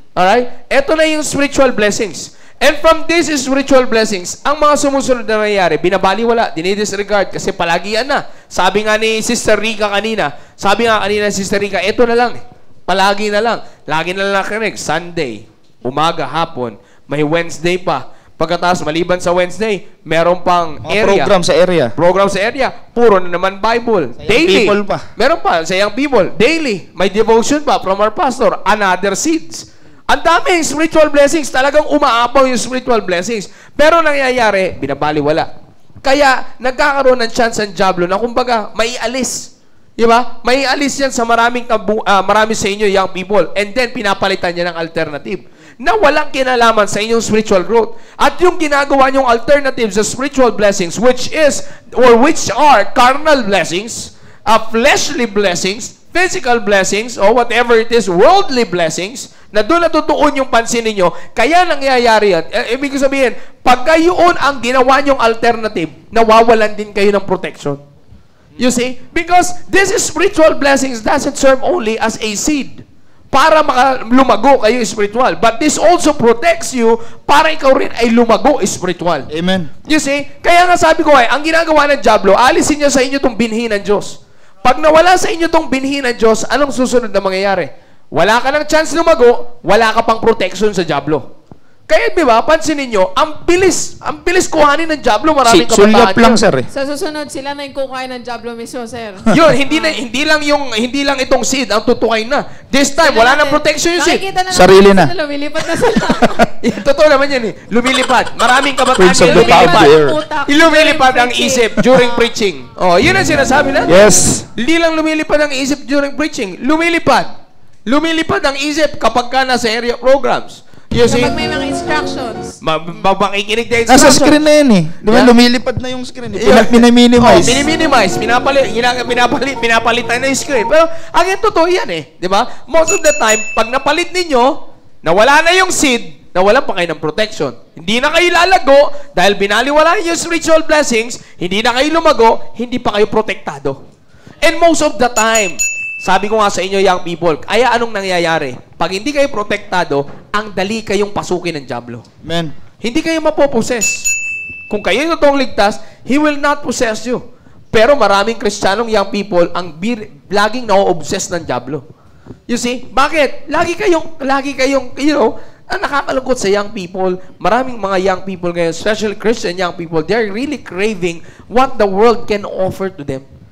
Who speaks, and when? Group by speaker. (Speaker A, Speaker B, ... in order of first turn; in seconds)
Speaker A: 0.2-21.3, 22.0-35.5, 36.0-39.5, 40.0-67.8, 68.6-79.3, 79.9-91.3, 91.9-96.4, 99.3-104.2, 106.6-110.0, 110.5-114.0, 114.6-117.3, 117.9-121.3, 122.6-124.4, 126.4-143.8, 144.4-152.1, 152.8-154.1, 154.7-161.8, 162.5-173.3
Speaker B: 20.9-21.9, 24.2-25.0, 79.3-79.7, 95.5-96.7, 104.5-105.1, 109.0-110.2, 113.9-114.5, 123.9-127.7, 152.2-152.5
Speaker C: 96.7-100.0, 103.0-106.4, 109.1-112.3, 121.0-122.6